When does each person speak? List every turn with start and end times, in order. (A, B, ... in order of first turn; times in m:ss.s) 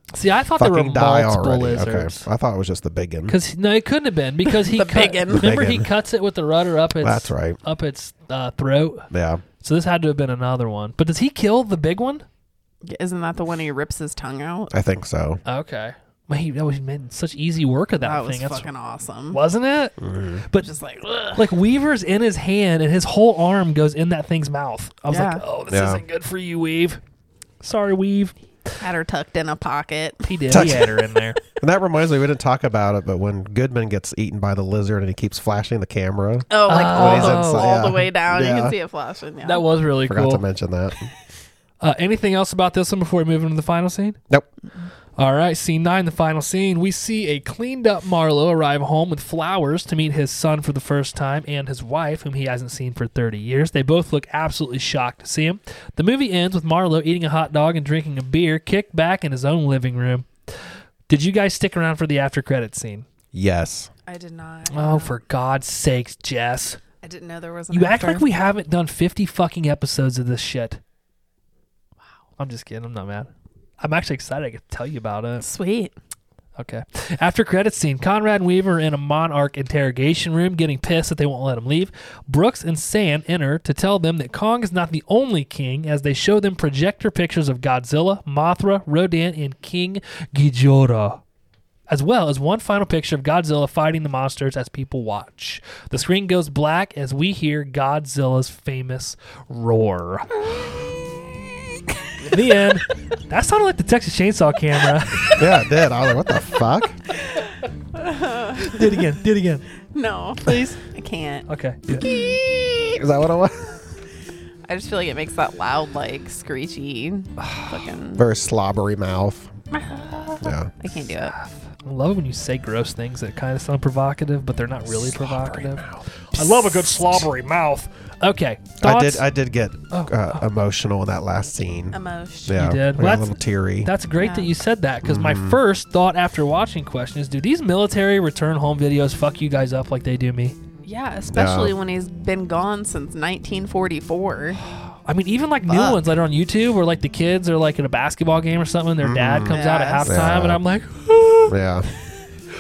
0:00.1-0:02.3 A
0:00.6-0:03.4 B
0:03.3-0:12.2 A
0:04.5-0:05.5 C
0:05.3-0:05.9 B
0:07.0-0:07.6 B
0:09.1-0:09.4 B
0:12.8-0:14.7 C
0:14.7-0:15.4 B
0:15.5-0:18.7 A
0:18.0-0:19.4 C
0:19.3-0:20.7 A
0:20.0-0:20.4 B
0:20.6-0:21.5 C
0:21.3-0:27.0 A
0:25.1-0:25.4 C
0:25.7-0:26.0 B
0:27.6-0:28.3 A
0:28.8-0:30.4 C
0:30.2-0:31.4 A
0:30.5-0:30.9 B
0:31.6-0:38.8 B
0:36.5-0:39.7 C
0:36.7-0:37.8 A
0:39.4-0:40.4 A
0:40.0-0:41.1 B
0:41.8-0:44.2 A
0:45.2-1:00.3 A
1:01.1-1:03.1 A
1:03.3-1:03.9 B
1:04.1-1:05.1 C
1:04.7-1:06.8 A
1:07.0-1:08.3 C
1:07.7-1:10.8 A
1:12.4-1:15.4 A
1:15.4-1:16.0 C
1:16.6-1:31.2 A
1:31.9-1:40.6 A
1:42.2-1:45.4 A
1:45.4-1:47.0 B
1:47.2-1:49.0 C
1:48.6-1:49.7 A
1:49.9-1:51.5 C
1:50.4-1:50.8 A
1:51.5-1:52.1 A
1:52.0-1:52.8 C
1:52.0-1:53.8 B
1:54.7-1:58.2 C
1:57.4-1:57.8 A
1:58.2-1:59.5 B
1:59.7-2:01.3 C
2:00.4-2:00.7 B
2:01.2-2:09.3 A
2:04.9-2:07.3 B
2:08.8-2:13.9 B
2:09.9-2:10.5 A
2:11.9-2:12.7 C
2:12.5-2:20.6 A
2:14.2-2:14.5 C
2:15.0-2:15.6 B
2:20.8-2:24.6 C
2:21.3-2:21.7 B
2:25.1-2:31.6 A
2:25.7-2:26.0 C
2:29.0-2:30.6 B
2:29.5-2:30.2 C
2:31.5-2:31.9 B